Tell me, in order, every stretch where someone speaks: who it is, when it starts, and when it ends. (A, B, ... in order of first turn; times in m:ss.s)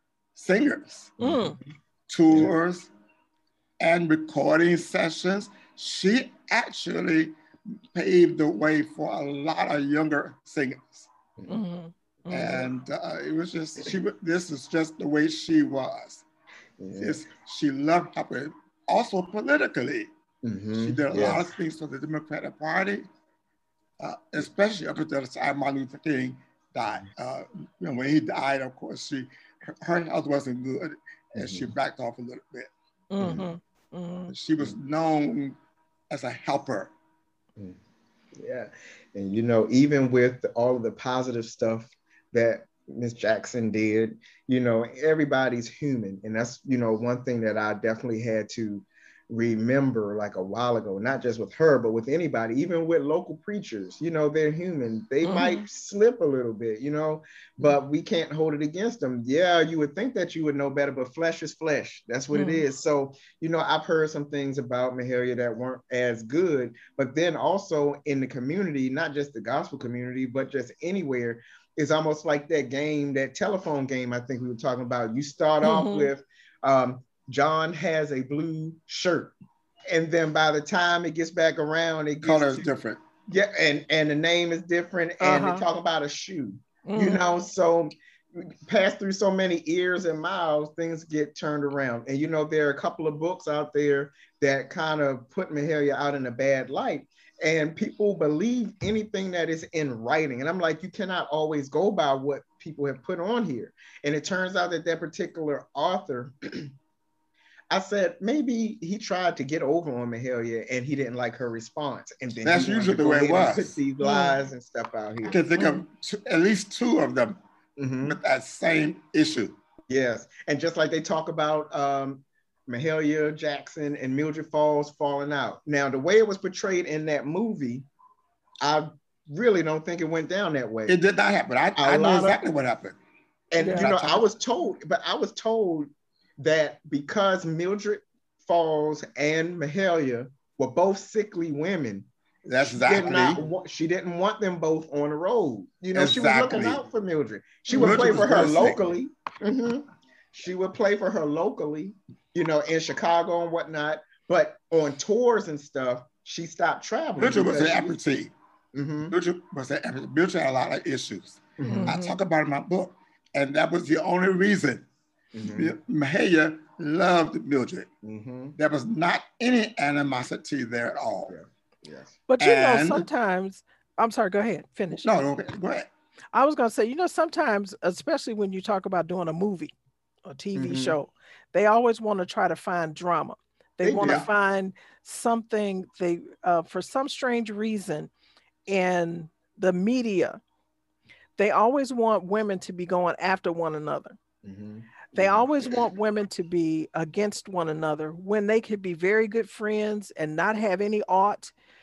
0:00.3-0:01.2 A
0:01.2-0:01.6 B
0:01.2-0:01.6 C
0:02.1-0:02.9 A
0:03.8-0:07.3 A
0:07.9-0:11.1 A
0:11.5-0:12.6 C
0:12.3-0:16.2 A
0:16.8-0:17.2 B
0:17.0-0:20.1 A
0:20.4-0:21.5 B
0:20.8-0:23.1 A
0:24.0-0:32.7 A
0:31.4-0:31.7 B
0:33.1-0:34.3 C
0:33.2-0:33.5 B
0:34.3-0:35.6 A
0:36.1-0:36.9 A
0:38.3-1:19.3 B
0:55.2-0:55.6 C
1:02.3-1:02.6 C
1:15.6-1:16.1 C
1:19.9-1:22.7 B
1:22.2-1:23.0 A
1:23.3-1:46.7 B
1:25.2-1:25.6 C
1:26.8-1:27.2 C
1:47.7-1:55.4 B
1:52.4-1:53.8 A
1:54.0-1:54.4 C
1:55.2-1:57.4 A
1:57.8-1:58.2 B
1:58.0-1:59.6 A
1:59.9-2:07.9 B
2:08.6-2:11.0 B
2:10.9-2:13.0 A
2:11.8-2:12.4 B
2:13.5-2:22.1 B
2:13.6-2:13.8 C
2:13.7-2:14.2 A
2:22.4-2:23.4 A
2:22.6-2:38.0 B
2:25.9-2:26.8 A
2:27.7-2:28.8 A
2:37.2-2:38.3 A
2:38.7-2:39.1 B
2:39.1-2:44.8 A
2:41.6-2:42.0 B
2:41.6-2:42.2 C
2:45.3-2:45.7 B
2:45.5-2:47.9 A
2:48.0-2:48.6 B
2:48.6-2:51.3 A
2:51.3-2:52.2 B
2:52.3-2:55.0 C
2:52.4-2:53.0 A
2:55.0-2:55.9 A
2:56.3-2:59.7 C
3:00.2-3:08.1 C
3:00.5-3:01.0 B
3:03.8-3:04.3 B
3:04.0-3:04.3 A
3:08.7-3:10.4 C
3:11.4-3:14.2 C
3:14.4-3:15.5 B
3:15.1-3:21.5 C